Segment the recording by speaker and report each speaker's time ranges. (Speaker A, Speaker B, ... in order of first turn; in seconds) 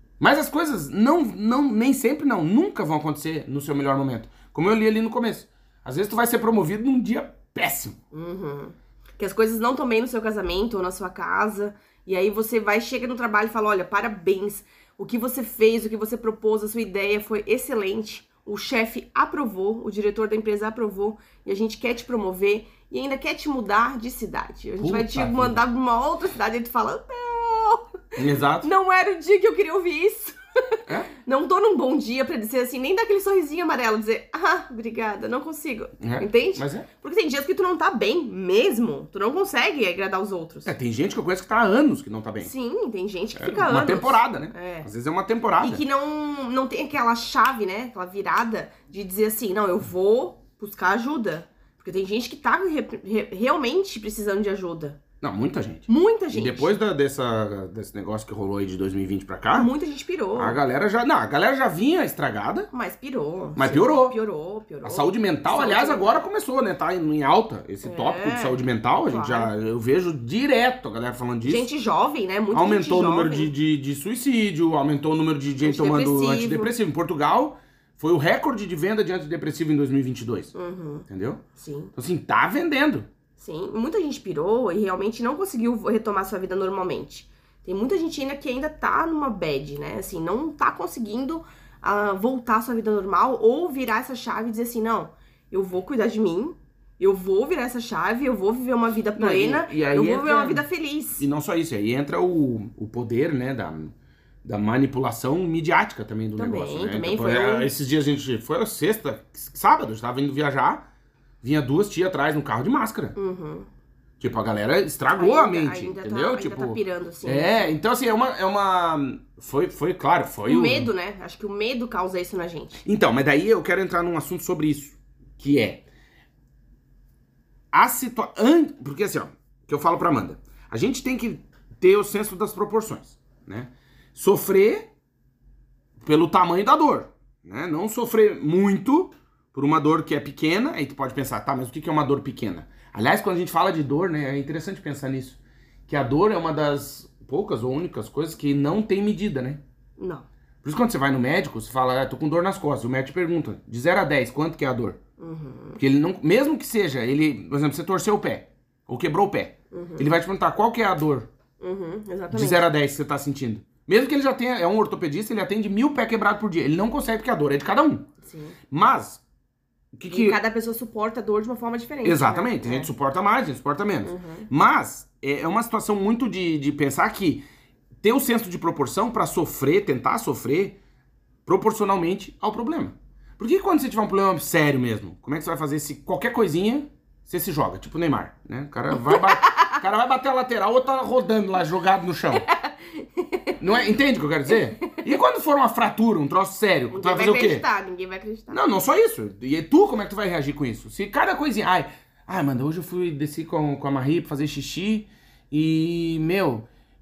Speaker A: 0.2-8.0, 24.8-25.6, 28.1-28.7, 36.0-36.9, 40.6-42.5, 43.3-45.8, 55.2-59.7, 60.3-62.7, 63.5-64.2, 64.8-71.7, 72.5-80.5, 81.1-81.4, 81.9-83.1, 99.2-100.7, 101.2-103.9, 104.4-110.8, 111.4-113.2, 114.2-120.9, 122.8-125.8, 127.7-134.9, 136.0-149.6, 150.6-155.0, 155.8-161.3, 162.3-168.1, 168.7-169.2, 169.9-170.4, 172.0-177.4, 178.0-180.8, 181.4-192.4, 193.6-197.6, 198.5-206.7
Speaker B: 8.1-28.0, 28.6-40.7, 42.4-44.9, 45.6-55.0, 55.9-56.8, 59.5-60.6, 62.7-66.2, 67.8-69.5, 71.4-73.5, 75.6-76.7, 80.5-81.9, 83.4-101.2, 106.4-107.7, 113.2-113.7, 115.1-117.7, 120.4-122.8, 150.0-150.2, 155.2-155.8, 159.7-160.1, 161.6-162.6, 168.2-168.6, 170.1-172.9, 174.0-174.5, 189.0-189.8, 192.5-193.6, 196.9-198.6